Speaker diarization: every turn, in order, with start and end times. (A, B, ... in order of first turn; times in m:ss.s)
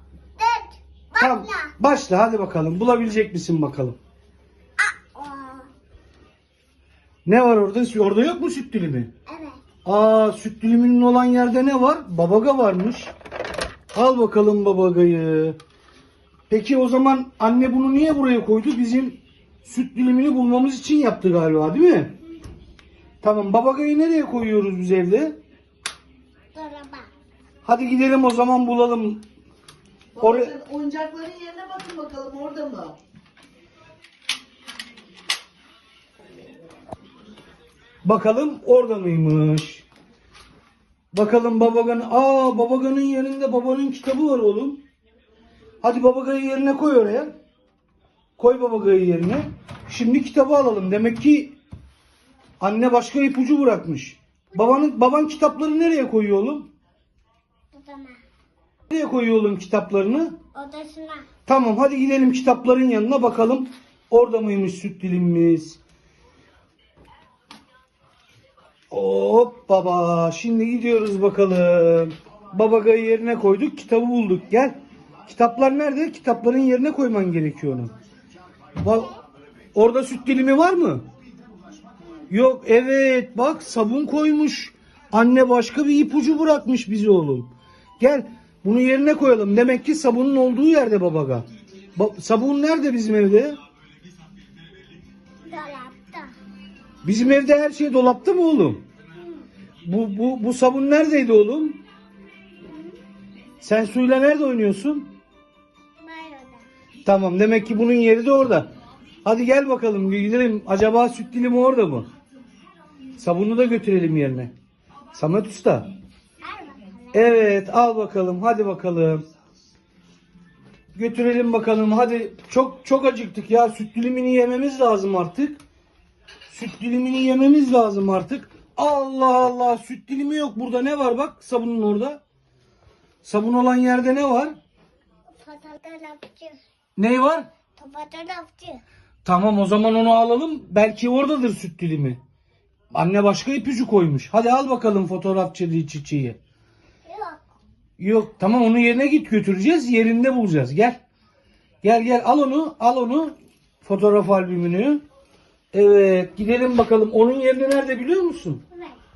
0:00.4-0:01.7 A
0:01.2-0:04.0 B
0:04.8-0:05.7 A
0:07.2-0:09.1 B
0:09.3-0:09.6 A
0:09.8-0:13.1 B
0:13.9-0:15.6 B
0:16.5-0:22.2 B
0:23.2-0:25.4 B
0:26.5-0:27.1 A
0:27.6-0:29.2 B
0:30.2-0:33.0 C
0:30.2-0:30.5 B
0:38.0-0:39.8 B
0:41.1-0:44.8 B
0:45.8-0:47.3 B
0:48.4-0:51.5 B
0:52.6-0:56.7 B
0:54.5-0:54.9 A
0:57.7-0:58.2 A
0:58.9-1:00.4 B
1:00.5-1:01.3 A
1:01.5-1:05.8 B
1:08.9-1:14.8 B
1:15.3-1:17.9 B
1:18.8-1:19.1 B
1:19.7-1:21.0 B
1:22.3-1:33.6 B
1:35.5-1:36.3 A
1:37.0-1:38.8 B
1:39.8-1:41.8 B
1:42.7-1:42.9 A
1:43.6-1:45.1 B
1:46.0-1:46.7 A
1:47.0-1:48.7 B
1:49.2-1:52.1 B
1:53.2-1:54.5 B
1:55.1-1:55.9 B
1:56.4-1:57.5 A
1:57.1-1:59.2 B
2:01.0-2:05.6 B
2:06.5-2:12.2 B
2:13.2-2:14.6 B
2:15.4-2:16.6 A
2:17.0-2:17.5 B
2:17.8-2:18.8 A
2:19.2-2:22.2 B
2:22.9-2:26.4 B
2:27.1-2:27.4 A
2:28.0-2:31.0 B
2:31.8-2:35.0 B
2:35.7-2:38.6 B
2:38.7-2:39.0 A